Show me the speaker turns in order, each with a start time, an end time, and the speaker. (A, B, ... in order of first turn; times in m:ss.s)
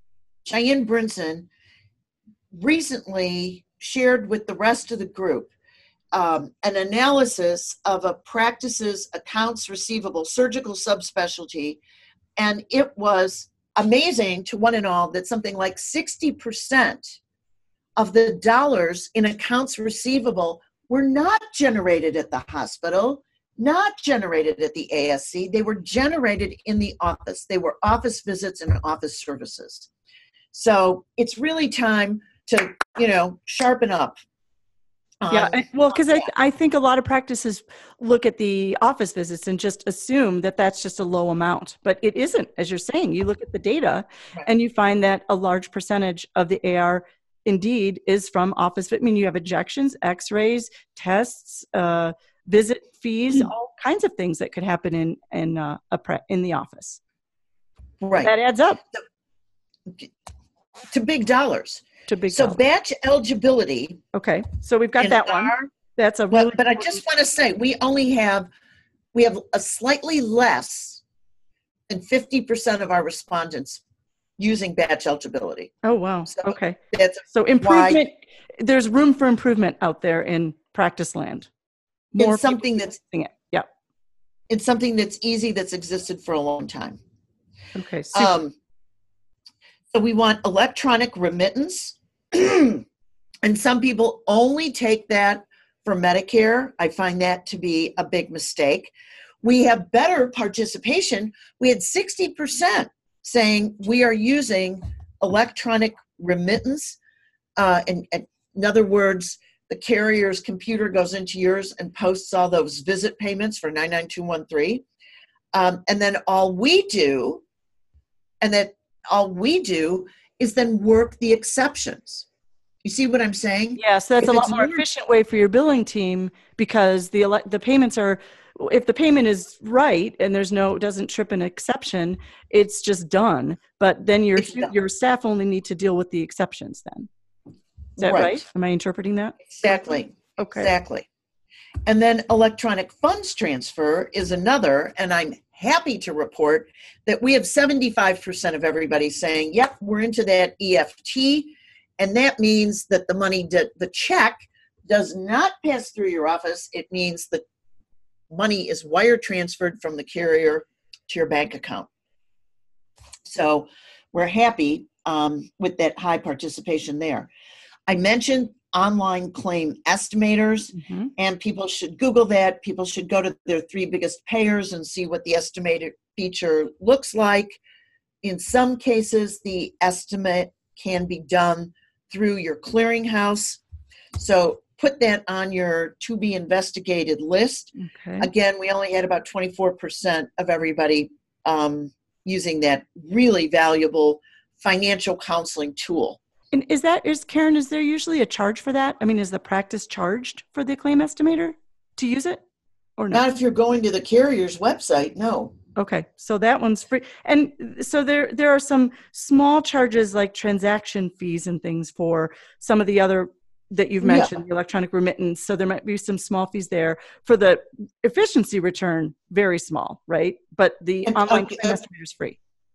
0:00.4-0:01.5 A
0:02.5-0:05.5 A
0:06.1-0:11.8 A
0:12.4-0:17.2 A
0:18.0-0:29.9 A
0:30.5-0:34.2 A
0:35.2-0:36.3 A
0:35.3-0:57.0 B
0:58.0-0:58.3 A
0:58.2-0:58.8 B
1:00.9-1:04.0 A
1:02.1-1:02.6 B
1:04.1-1:07.0 B
1:05.0-1:05.7 A
1:06.3-1:08.5 A
1:09.1-1:11.0 A
1:11.9-1:13.8 A
1:14.4-1:15.7 A
1:15.8-1:16.8 B
1:16.3-1:18.0 A
1:17.3-1:21.5 B
1:22.1-1:23.7 B
1:22.2-1:23.0 A
1:24.5-1:27.0 A
1:27.8-1:28.3 B
1:28.1-1:28.5 A
1:29.9-1:32.8 A
1:33.4-1:38.9 A
1:39.4-1:47.0 A
1:47.6-1:54.8 A
1:55.5-1:57.4 A
1:58.4-2:02.3 A
2:02.8-2:04.8 A
2:03.8-2:17.1 B
2:14.4-2:14.7 A
2:18.0-2:18.4 A
2:18.0-2:19.4 B
2:19.5-2:21.1 A
2:20.4-2:20.7 B
2:21.8-2:37.4 A
2:38.3-2:41.9 A
2:43.2-2:47.3 A
2:47.9-2:57.6 A
2:50.7-2:51.1 B
2:58.2-3:03.6 A
3:04.2-3:16.2 A
3:07.8-3:08.3 B
3:16.5-3:22.4 B
3:23.0-3:23.3 B
3:23.1-3:25.6 A
3:25.8-3:42.4 B
3:34.0-3:34.3 A
3:41.1-3:41.8 A